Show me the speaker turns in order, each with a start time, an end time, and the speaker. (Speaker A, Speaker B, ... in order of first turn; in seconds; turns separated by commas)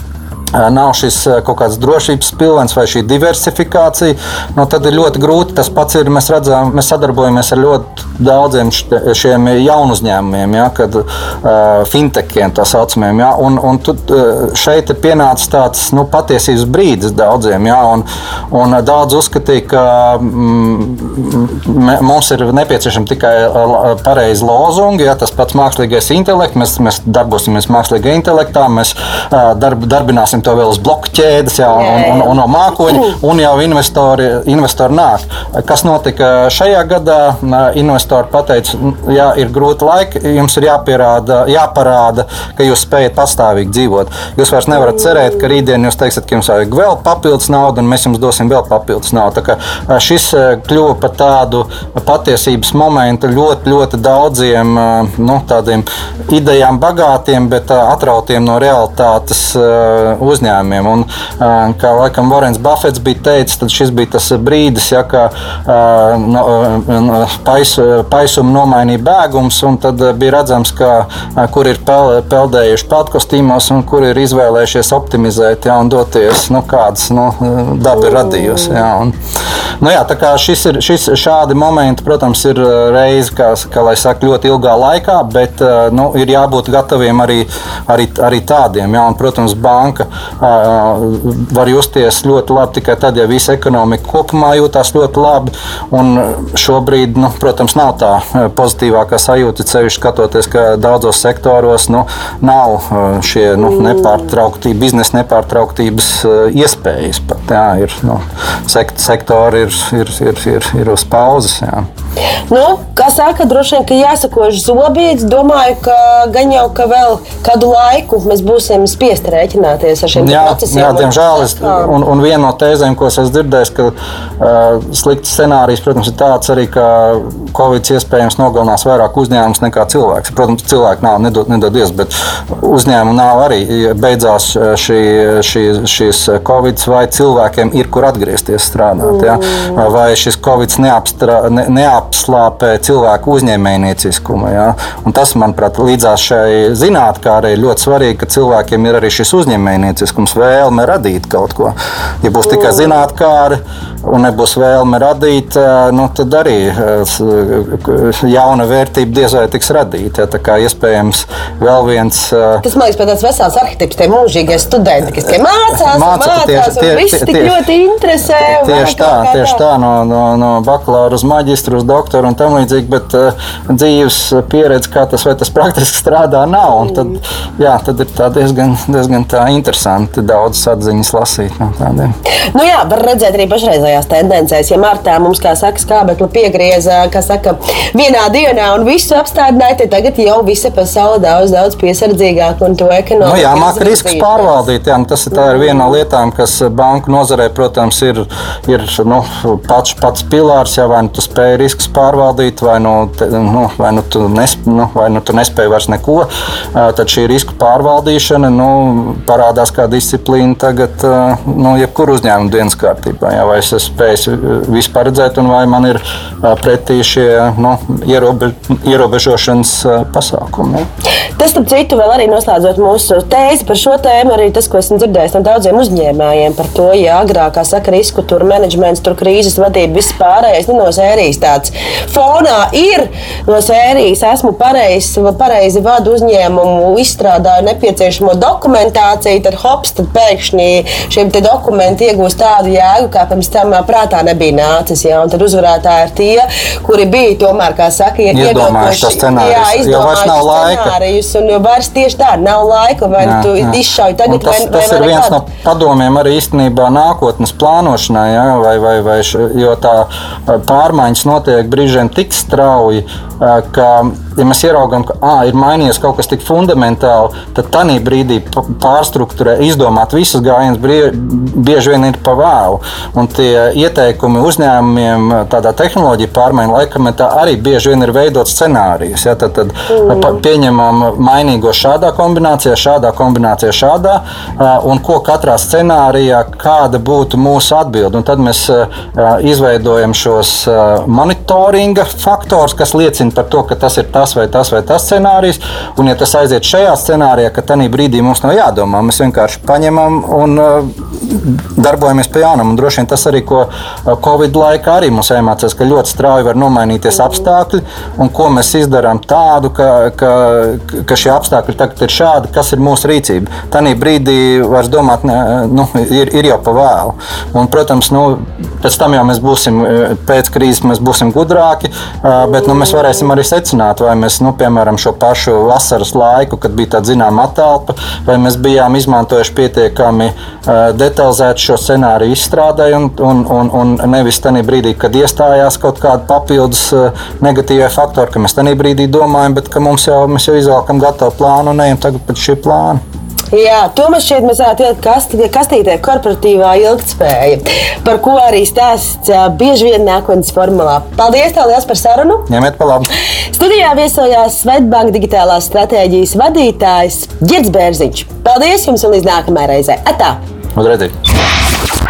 Speaker A: 0.5-79.2, Speaker B: 31.7-32.4, Speaker A: 79.8-111.9, Speaker B: 112.5-122.0, Speaker A: 120.2-162.6, Speaker B: 162.6-169.6, Speaker A: 165.7-167.6, Speaker A: 168.4-182.1, Speaker B: 182.5-194.7, Speaker A: 193.2-220.9, Speaker B: 221.4-255.5, Speaker A: 248.3-251.0, Speaker A: 253.2-343.0, Speaker B: 279.9-280.2, Speaker B: 343.5-352.5, Speaker A: 352.5-353.1, Speaker B: 353.5-360.4, Speaker A: 360.8-361.1